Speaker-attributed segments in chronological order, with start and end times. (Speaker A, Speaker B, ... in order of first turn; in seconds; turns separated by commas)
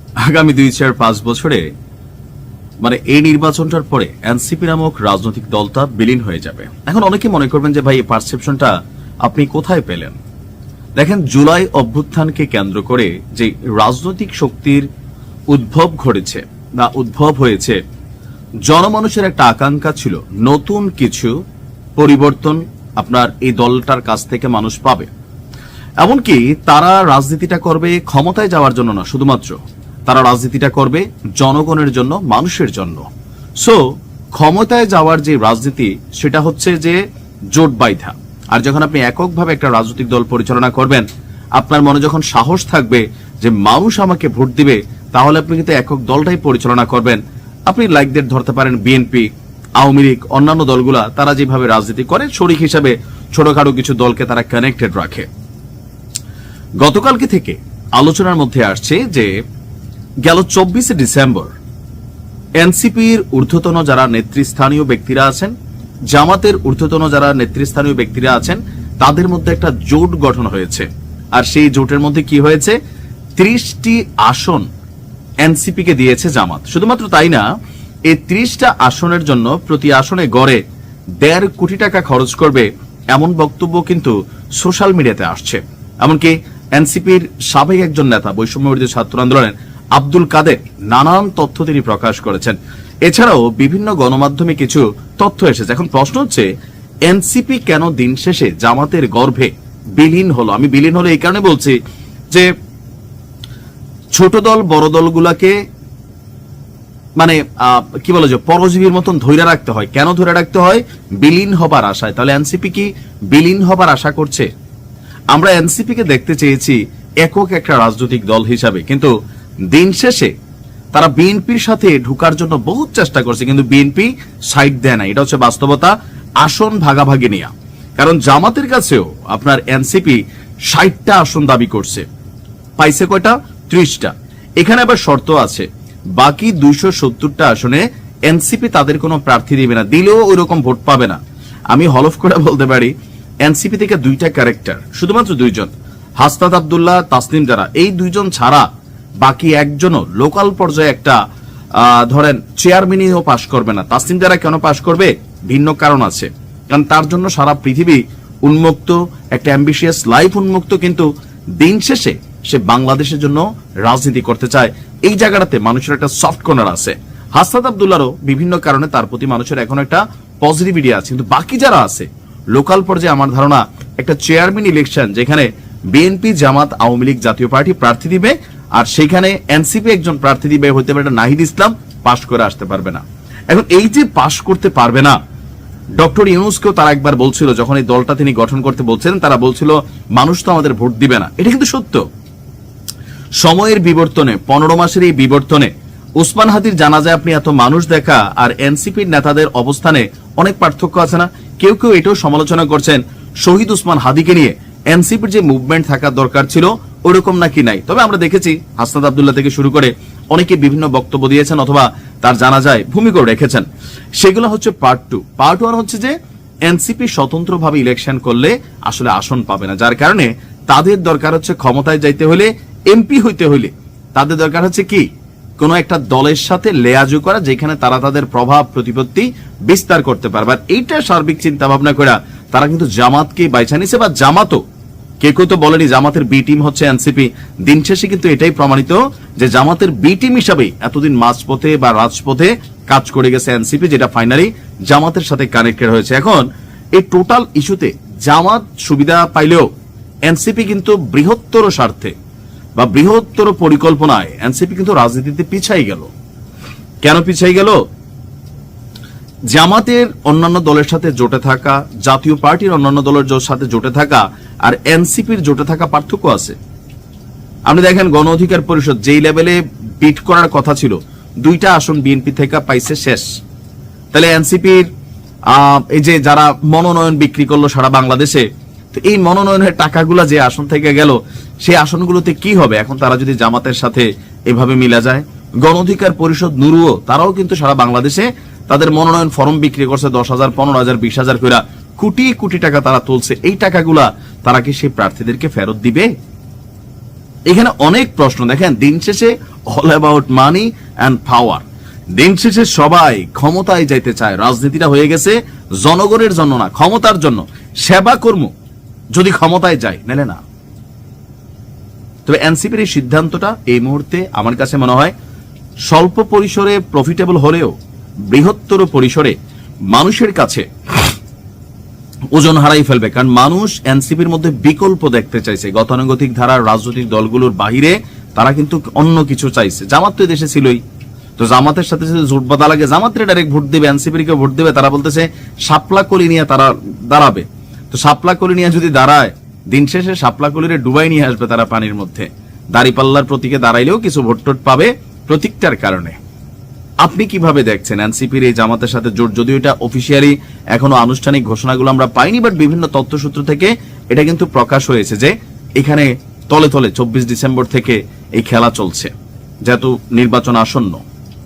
Speaker A: 0.2-1.7, Speaker A: 2.8-10.2, Speaker A: 11.0-14.9, Speaker A: 15.5-17.8, Speaker A: 18.6-21.3, Speaker A: 22.0-25.1, Speaker A: 26.0-33.0, Speaker A: 34.3-37.0, Speaker A: 37.5-41.0, Speaker A: 41.6-49.3, Speaker A: 49.8-55.3, Speaker A: 56.8-59.3, Speaker A: 60.2-61.5, Speaker A: 62.6-65.5, Speaker A: 66.1-72.8, Speaker A: 73.3-74.7, Speaker A: 75.4-77.4, Speaker A: 78.1-80.6, Speaker A: 81.2-96.5, Speaker A: 97.1-101.8, Speaker A: 104.1-105.5, Speaker A: 107.2-114.5, Speaker A: 115.3-119.1, Speaker A: 119.7-120.3, Speaker A: 120.9-132.0, Speaker A: 132.8-141.2, Speaker A: 141.7-142.9, Speaker A: 143.4-148.6, Speaker A: 149.2-151.2, Speaker A: 151.7-161.1, Speaker A: 161.6-185.2, Speaker A: 186.0-192.0, Speaker A: 193.4-213.7, Speaker A: 214.2-216.1, Speaker A: 216.7-225.1, Speaker A: 225.6-234.6, Speaker A: 235.2-249.7, Speaker A: 250.3-252.1, Speaker A: 252.8-256.1, Speaker A: 257.0-257.8, Speaker A: 259.5-266.6, Speaker A: 267.7-273.3, Speaker A: 274.1-274.9, Speaker A: 275.5-296.1, Speaker A: 297.5-301.6, Speaker A: 302.1-308.5, Speaker A: 309.1-310.4, Speaker A: 312.2-315.1, Speaker A: 315.9-317.7, Speaker A: 318.3-319.3, Speaker A: 319.9-320.6, Speaker A: 322.3-330.8, Speaker A: 331.4-346.2, Speaker A: 347.0-359.1, Speaker A: 359.6-361.0